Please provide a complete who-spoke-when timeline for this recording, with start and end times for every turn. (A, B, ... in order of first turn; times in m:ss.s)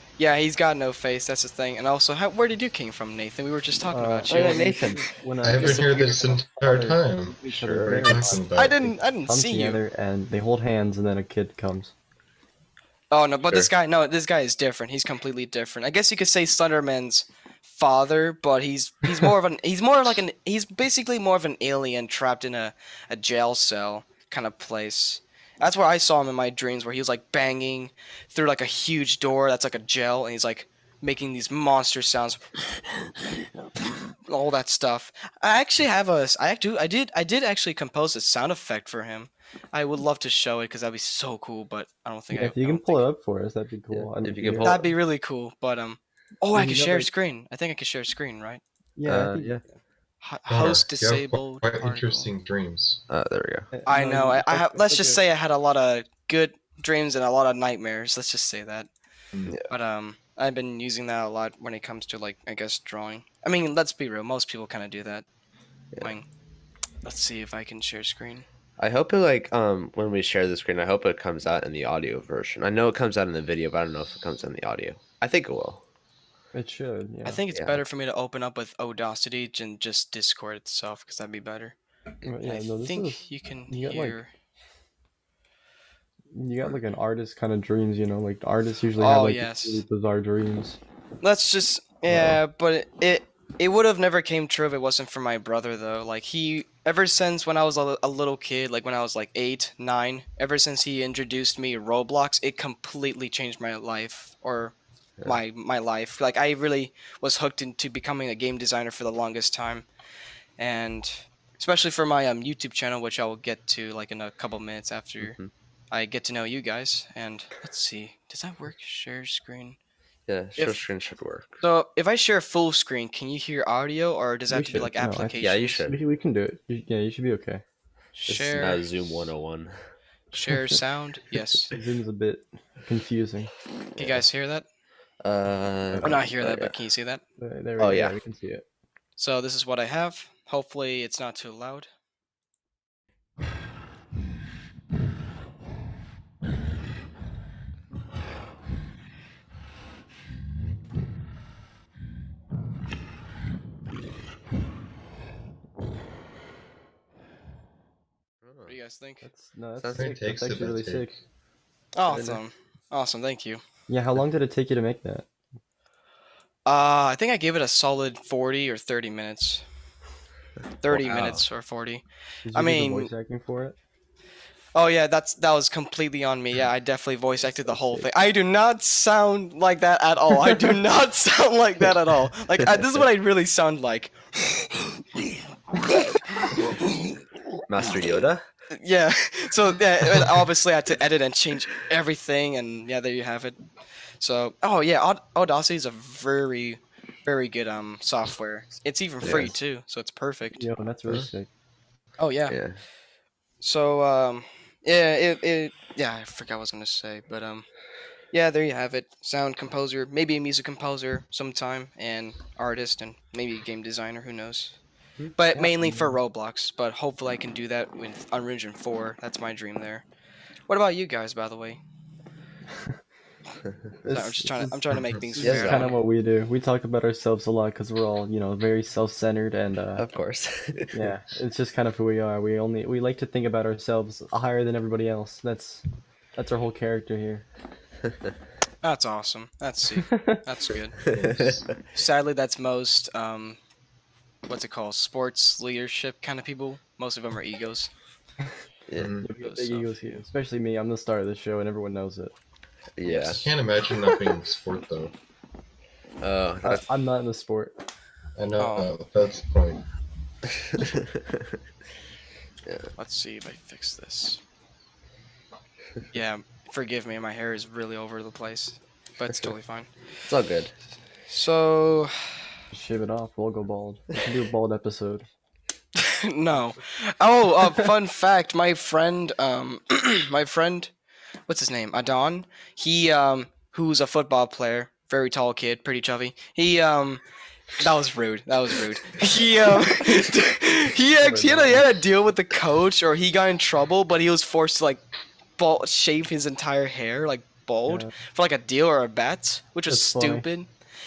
0:00.2-0:04.7 A
0:03.9-0:11.9 B
0:04.3-0:05.1 C
0:05.4-0:08.8 D
0:07.5-0:08.2 C
0:08.5-0:09.8 A
0:13.1-0:32.5 A
0:34.2-0:43.0 A
0:42.3-0:44.9 B
0:43.9-0:44.9 C
0:44.6-0:48.6 A
0:46.5-0:47.1 B
0:49.0-0:49.6 B
0:49.0-0:49.6 C
0:50.2-0:52.3 A
0:50.5-0:53.0 D
0:53.1-0:53.7 C
0:53.7-0:55.2 B
0:53.8-0:58.9 A
0:59.3-0:59.6 D
0:59.7-1:05.2 A
1:06.0-1:06.3 A
1:07.0-1:08.4 A
1:08.8-1:15.8 C
1:16.5-1:17.4 B
1:17.2-1:21.8 A
1:17.5-1:17.8 C
1:22.2-1:24.2 B
1:22.4-1:24.3 A
1:26.3-1:30.8 B
1:29.0-1:29.8 A
1:31.2-1:44.7 A
1:32.1-1:32.4 B
1:45.2-1:49.8 A
1:50.6-1:55.4 A
1:55.2-1:55.5 C
1:55.9-1:59.8 A
2:00.3-2:01.6 C
2:00.6-2:00.8 A
2:01.6-2:05.8 A
2:04.5-2:07.6 B
2:05.4-2:06.0 C
2:08.1-2:08.8 A
2:08.3-2:09.8 C
2:10.3-2:11.7 A
2:10.5-2:10.8 B
2:11.7-2:13.5 B
2:14.0-2:14.6 A
2:15.2-2:16.7 C
2:15.9-2:16.3 B
2:16.0-2:17.2 A
2:17.4-2:18.6 B
2:17.8-2:18.2 C
2:19.2-2:21.9 A
2:38.4-2:38.7 C
2:38.7-2:39.3 A
2:39.2-2:41.1 B
2:39.8-2:40.1 C
2:40.0-2:41.1 D
2:41.9-2:43.6 A
2:42.1-2:42.4 C
2:43.9-2:45.3 B
2:46.6-2:49.6 A
2:50.8-2:53.1 A
2:50.9-2:51.4 C
2:52.4-2:53.8 B
2:54.7-3:05.0 A
2:57.7-2:58.1 B
3:05.9-3:07.0 A
3:07.7-3:08.4 C
3:08.7-3:13.6 A
3:14.2-3:20.6 A
3:19.2-3:19.5 C
3:20.6-3:21.5 B
3:22.2-3:22.6 A
3:22.5-3:22.8 C
3:23.6-3:27.6 A
3:28.3-3:34.8 A
3:35.4-3:40.0 A
3:35.6-3:36.2 B
3:40.7-3:41.8 A
3:44.0-3:50.0 B
3:44.1-3:46.0 A
3:45.4-3:45.9 C
3:50.0-3:51.0 C
3:50.9-3:55.8 B
3:56.4-3:57.4 B
3:58.8-4:01.0 A
4:00.0-4:00.4 B
4:01.0-4:01.7 D
4:01.0-4:01.7 C
4:01.9-4:03.6 A
4:04.5-4:07.9 A
4:09.0-4:09.3 D
4:09.2-4:12.3 B
4:09.4-4:09.9 A
4:13.0-4:13.5 C
4:13.0-4:13.5 A
4:13.4-4:15.1 D
4:16.2-4:16.8 C
4:16.6-4:17.8 B
4:18.4-4:19.8 D
4:18.6-4:18.9 A
4:20.4-4:21.5 C
4:22.6-4:22.9 C
4:23.0-4:24.4 A
4:26.1-4:29.9 A
4:30.2-4:30.7 C
4:31.3-4:32.3 A
4:32.7-4:35.3 B
4:36.0-4:40.9 A
4:41.5-4:47.2 A
4:47.8-4:55.0 A
4:51.2-4:51.9 B
4:55.6-5:00.7 A
4:57.9-4:58.1 B
4:59.9-5:00.4 B